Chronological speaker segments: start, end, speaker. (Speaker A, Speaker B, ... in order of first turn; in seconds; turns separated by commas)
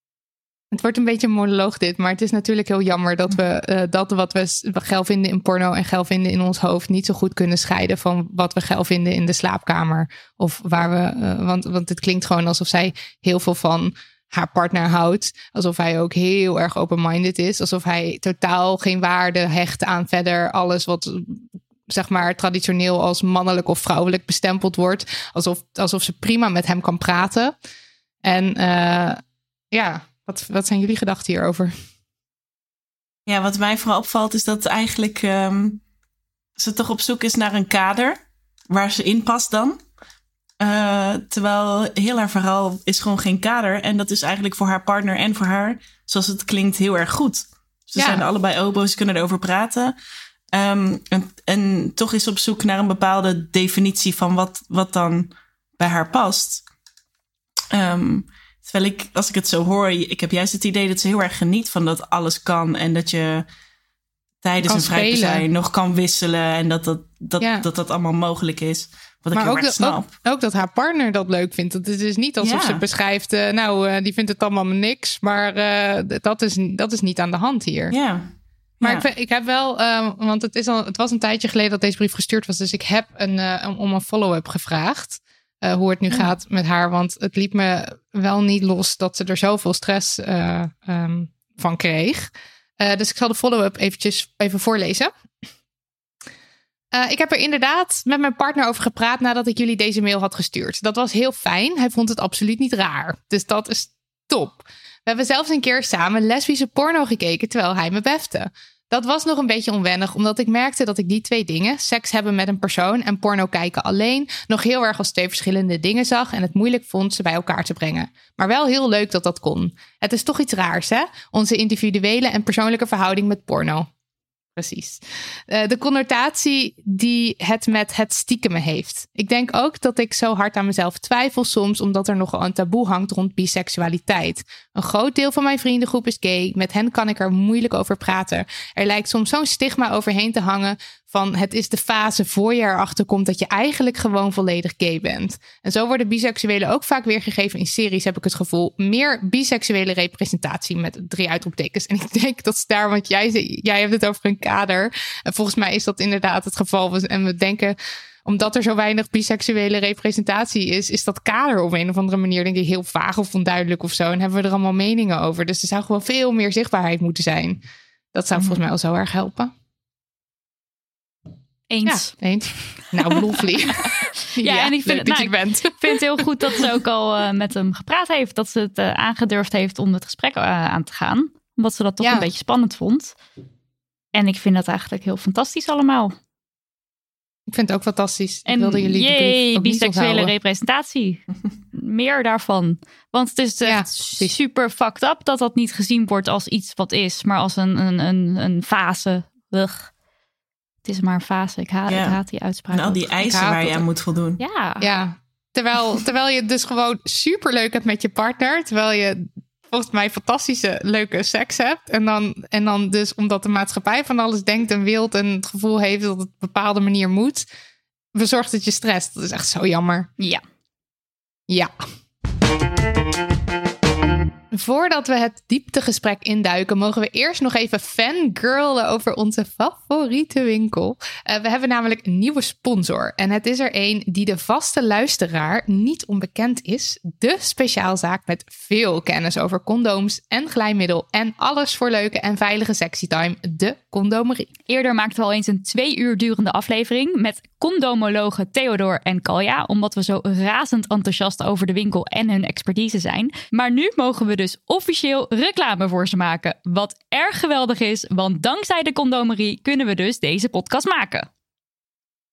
Speaker A: 0.7-27.5, Speaker A: 28.2-29.2, Speaker A: 29.7-31.7, Speaker B: 33.3-35.8, Speaker B: 36.6-38.2, Speaker B: 38.7-39.8, Speaker B: 40.6-49.9, Speaker A: 48.0-48.2, Speaker B: 50.5-56.6, Speaker B: 57.7-63.5, Speaker B: 64.4-70.1, Speaker A: 64.6-65.4, Speaker A: 67.4-67.6, Speaker A: 69.3-77.9, Speaker B: 72.4-72.8, Speaker B: 77.9-78.3, Speaker B: 78.8-79.0, Speaker A: 78.8-95.1, Speaker A: 96.9-123.9, Speaker A: 124.5-167.6, Speaker A: 168.1-169.5, Speaker C: 171.7-172.1, Speaker A: 171.8-176.6, Speaker C: 173.8-183.1, Speaker A: 182.0-182.3, Speaker C: 184.1-186.2, Speaker A: 187.5-190.3, Speaker C: 188.5-191.2, Speaker C: 191.7-199.9, Speaker A: 193.6-194.3, Speaker C: 200.8-203.1, Speaker B: 201.9-202.2, Speaker B: 202.7-204.4, Speaker A: 203.2-203.8, Speaker C: 204.4-204.9, Speaker A: 204.8-217.5, Speaker A: 218.1-220.1, Speaker A: 224.5-244.5, Speaker C: 244.7-261.3